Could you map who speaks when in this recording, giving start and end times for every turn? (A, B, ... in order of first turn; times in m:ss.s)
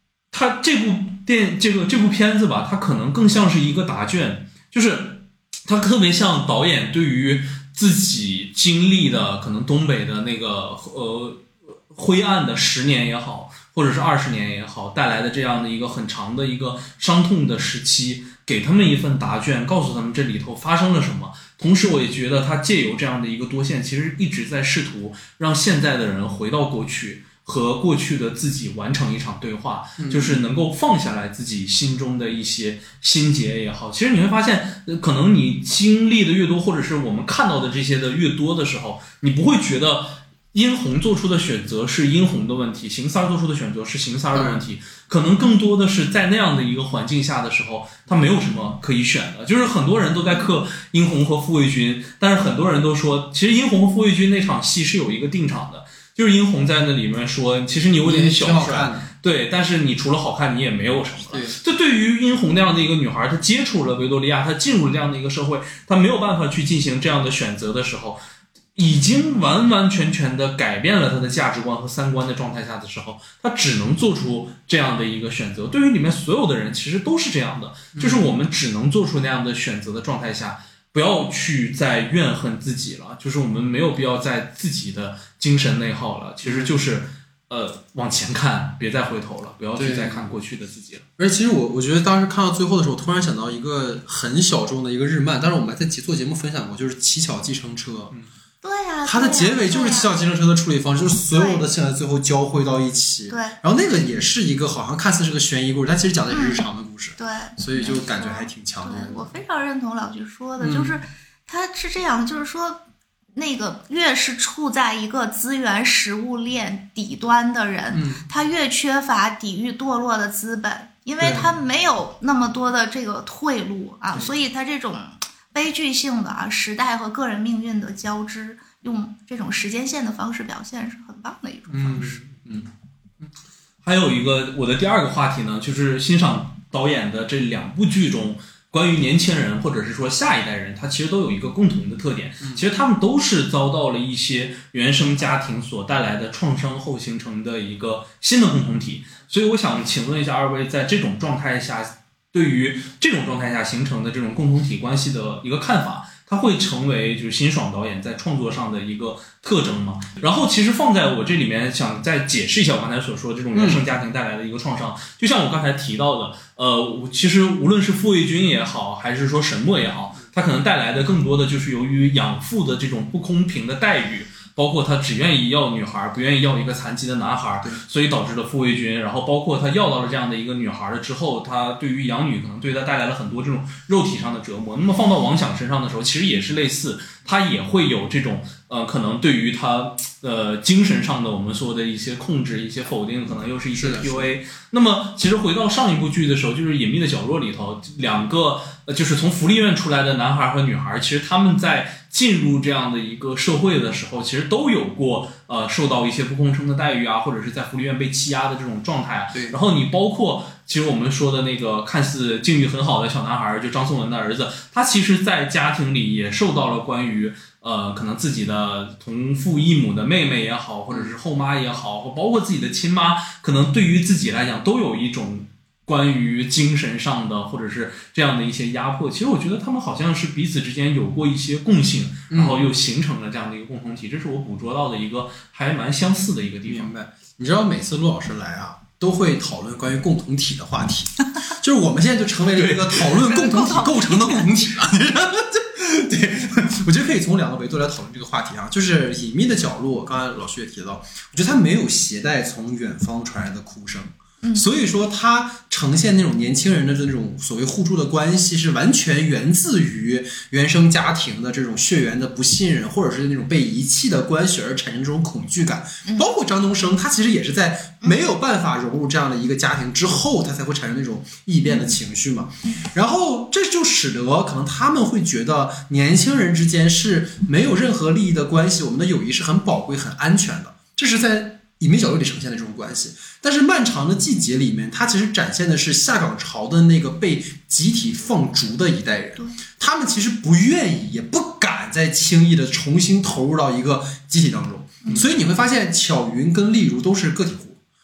0:00.3-1:08.2 A
0:30.0-0:30.4 B
0:44.3-0:44.6 B
0:58.0-0:59.1 B
1:01.3-1:01.6 B
1:08.8-1:31.0 A
1:18.0-1:18.4 B
1:26.4-1:26.8 B
1:29.8-1:30.3 B
1:31.2-1:38.2 B
1:38.6-1:40.1 C
1:39.1-1:49.3 B
1:41.3-1:41.7 C
1:43.3-1:43.6 C
1:46.3-1:46.6 C
1:47.2-1:52.8 C
1:50.6-1:51.0 B
1:53.4-2:12.2 C
1:57.9-1:58.2 B
2:01.2-2:01.5 B
2:11.7-2:12.7 B
2:13.8-3:56.9 A
2:43.5-2:43.8 B
3:13.8-3:14.3 B
3:40.9-3:41.2 B
3:52.3-3:52.6 B
3:56.6-4:57.8 B
4:02.6-4:03.1 A
4:03.3-4:04.4 C
4:26.0-4:26.3 C